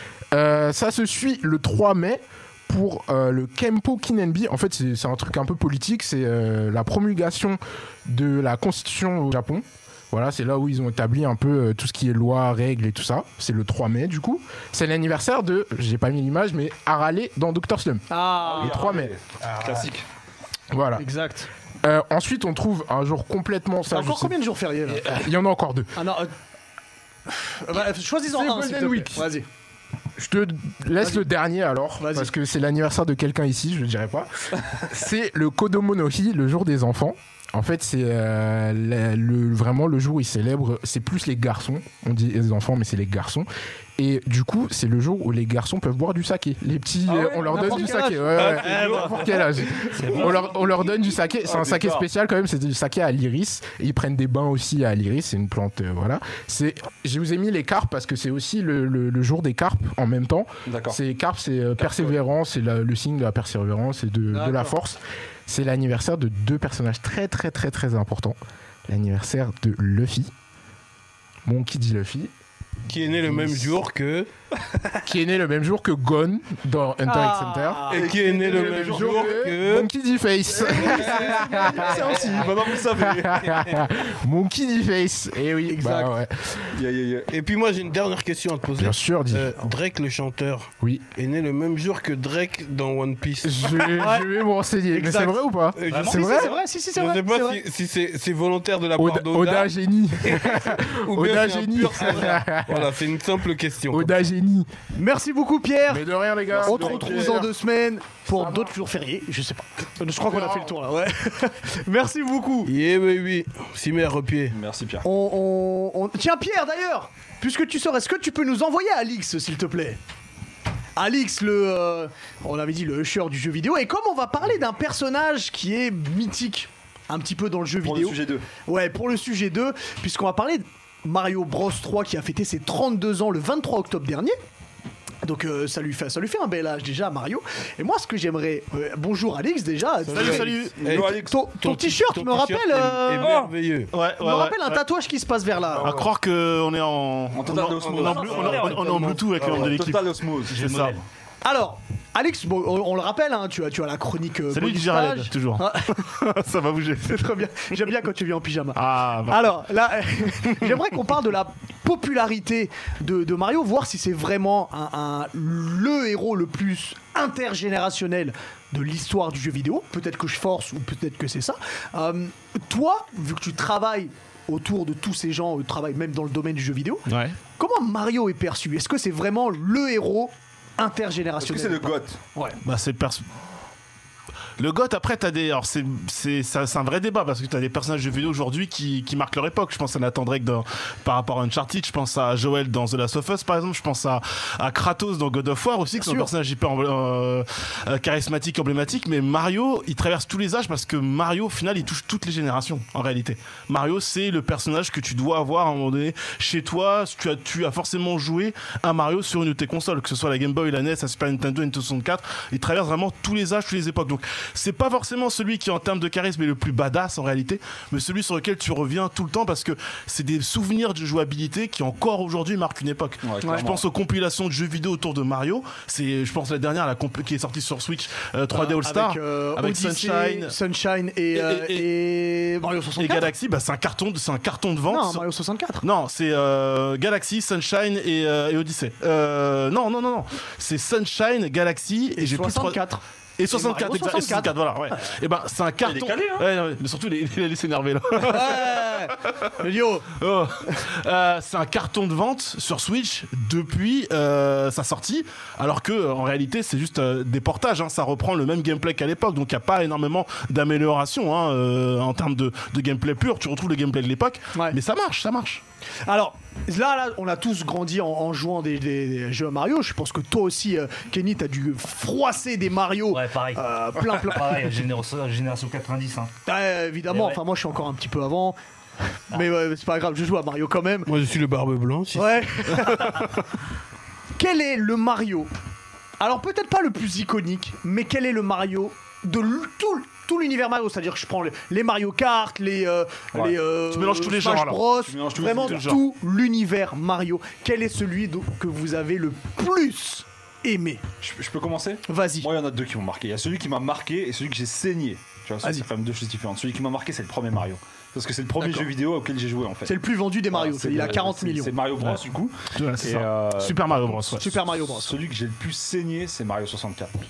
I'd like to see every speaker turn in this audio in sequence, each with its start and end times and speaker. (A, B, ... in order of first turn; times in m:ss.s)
0:00.3-0:18.1 A
0:18.1-0:19.0 B
0:18.4-0:20.0 C
0:18.6-0:19.1 A
0:20.7-0:21.1 A
0:21.0-0:21.5 B
0:21.8-0:24.4 A
0:23.9-0:25.2 B
0:24.9-0:25.9 A
0:26.0-0:26.3 B
0:27.4-0:29.5 B
0:28.3-0:29.3 A
0:30.2-1:10.3 A
0:32.0-0:32.3 B
0:47.1-0:48.1 C
0:47.4-0:49.9 B
0:48.4-0:49.3 D
0:48.6-0:48.9 C
0:49.9-0:52.1 C
1:00.7-1:01.0 C
1:01.8-1:02.1 C
1:04.3-1:04.7 B
1:11.5-1:12.3 A
1:12.9-1:14.3 D
1:13.2-1:13.8 A
1:15.0-1:26.8 A
1:17.0-1:18.1 B
1:17.9-1:19.9 D
1:17.9-1:19.5 C
1:20.6-1:23.9 C
1:20.8-1:22.4 D
1:25.7-1:26.1 B
1:26.7-1:27.3 C
1:27.3-1:33.7 D
1:28.8-1:29.5 A
1:30.8-1:31.1 A
1:33.4-1:36.5 A
1:33.9-1:34.3 B
1:34.9-1:35.4 B
1:35.8-1:39.7 D
1:35.9-1:36.3 E
1:36.0-1:37.6 B
1:39.0-1:43.0 A
1:40.2-1:44.1 D
1:43.9-1:44.7 A
1:44.9-1:46.0 B
1:45.9-1:47.5 A
1:46.5-1:47.5 C
1:46.6-1:52.7 B
1:48.3-1:48.7 A
1:52.6-1:54.6 D
1:54.5-1:55.1 C
1:55.0-2:00.0 B
2:01.0-2:14.4 B
2:07.8-2:08.5 C
2:15.2-2:23.4 B
2:20.1-2:23.9 D
2:20.1-2:20.8 F
2:20.8-2:21.4 C
2:23.2-2:23.5 C
2:23.9-2:24.8 F
2:24.2-2:25.9 B
2:25.7-2:26.1 D
2:25.8-2:31.0 F
2:27.3-2:28.8 C
2:27.4-2:29.8 D
2:28.0-2:28.9 E
2:29.4-2:30.6 C
2:30.5-2:31.0 E
2:31.4-2:36.1 B
2:34.5-2:37.3 F
2:37.0-3:02.6 B
2:38.8-2:39.5 F
2:57.1-2:57.4 F
3:01.4-3:02.2 C
3:02.6-3:03.3 F
3:04.6-3:50.6 F
3:16.0-3:16.3 B
3:43.2-3:43.8 C
3:48.5-3:53.3 B
3:51.3-3:51.9 F
3:53.0-3:55.2 F
3:54.9-3:55.8 B
3:55.8-4:02.8 F
4:02.2-4:05.1 B
4:03.4-4:09.5 F
4:05.8-4:06.5 C
4:08.2-4:10.1 B
4:10.2-4:25.6 F
4:26.0-4:34.8 B
4:33.1-4:36.3 E
4:36.5-4:38.6 B
4:37.1-4:37.4 E
4:39.3-4:41.1 B
4:41.1-4:42.4 D
4:42.2-4:43.3 B
4:44.4-4:45.5 B
4:46.2-5:01.0 B
4:53.9-4:54.8 F
4:55.0-4:55.9 C
4:55.6-4:56.0 F
5:01.2-5:10.0 C
5:02.1-5:02.5 B
5:08.6-5:08.9 B
5:09.8-5:11.7 B
5:10.5-5:14.0 C
5:12.7-5:14.6 F
5:14.3-5:15.2 B
5:15.0-5:17.1 C